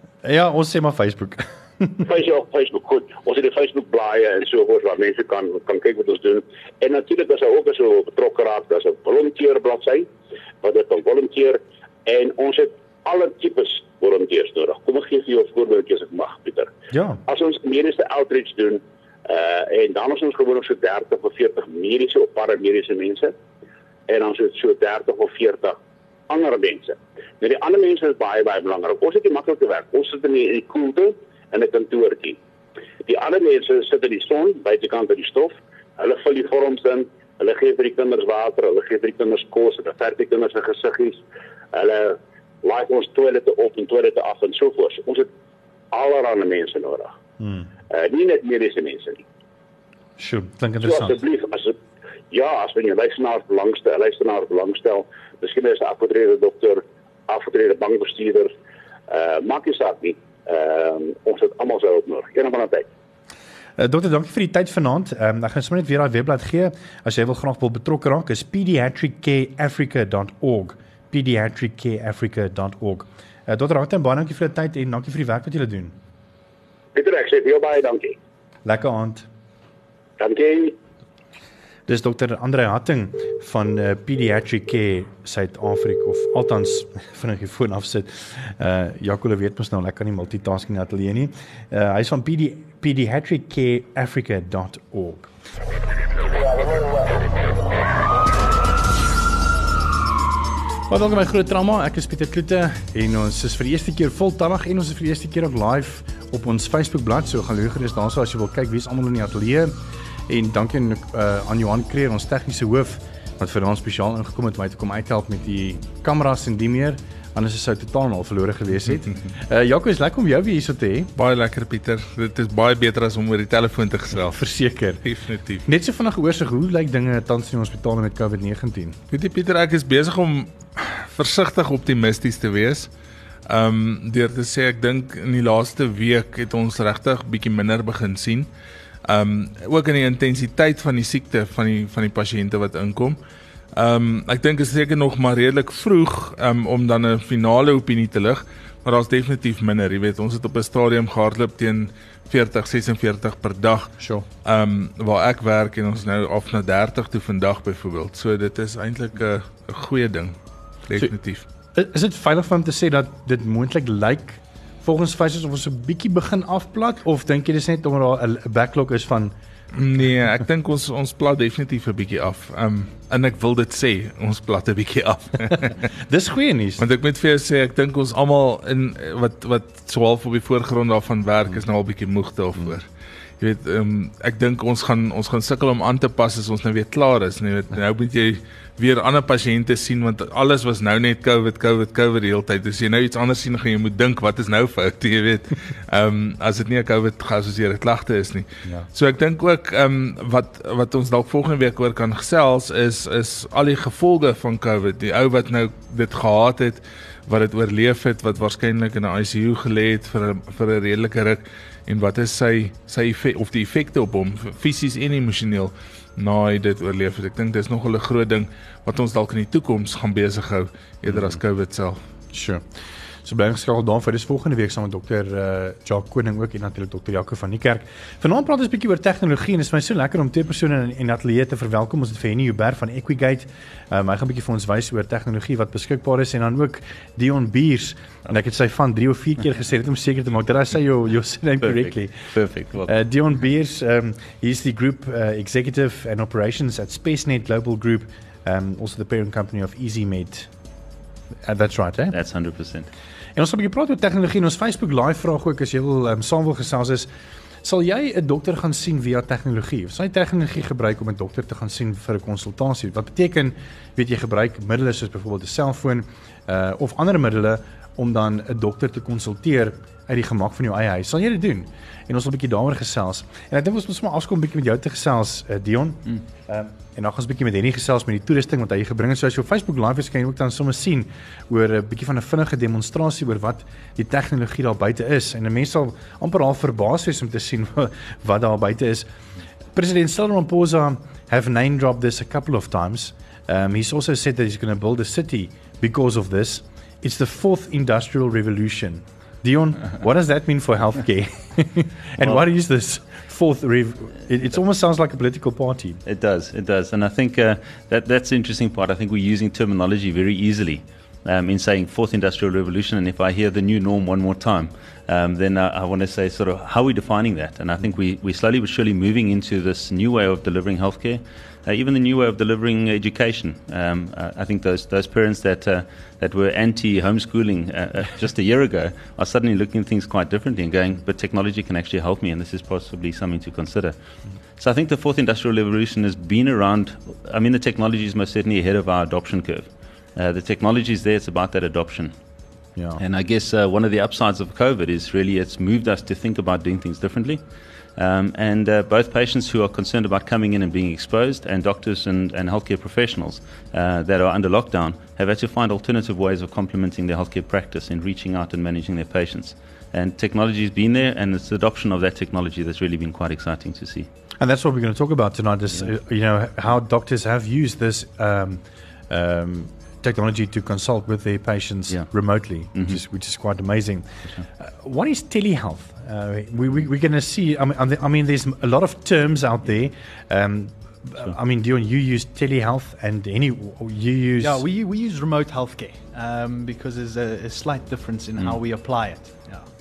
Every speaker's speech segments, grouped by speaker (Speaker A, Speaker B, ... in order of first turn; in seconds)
Speaker A: 0.2-2.0, 16.9-17.2, 47.4-47.7, 50.2-51.2, 63.8-75.9, 78.7-79.3, 81.9-95.3, 100.9-109.7, 110.3-121.1, 124.2-125.0, 125.7-129.0, 154.0-154.2, 161.8-169.3, 176.1-176.8, 222.3-222.6, 223.2-242.3, 242.8-250.5, 251.4-252.2, 253.4-257.1, 257.6-289.1, 289.7-306.0, 364.4-374.1, 374.6-384.6
Speaker B: 2.0-10.1, 10.6-16.7, 17.3-23.3, 24.1-25.8, 26.3-32.4, 33.1-41.2, 41.7-45.3, 45.9-47.1, 47.9-49.2, 50.8-51.8, 52.3-58.5, 59.1-62.9, 77.0-78.2, 80.2-80.8
Speaker C: 121.2-124.4, 125.0-125.7, 129.1-132.9, 133.5-138.5, 139.1-143.2, 143.8-160.3, 160.9-161.4, 169.7-175.8, 176.8-182.9, 183.4-222.0
Speaker D: 242.3-242.9, 252.1-252.9, 306.1-334.0, 334.6-342.1, 343.0-347.4, 348.0-364.1
Speaker E: 384.4-389.7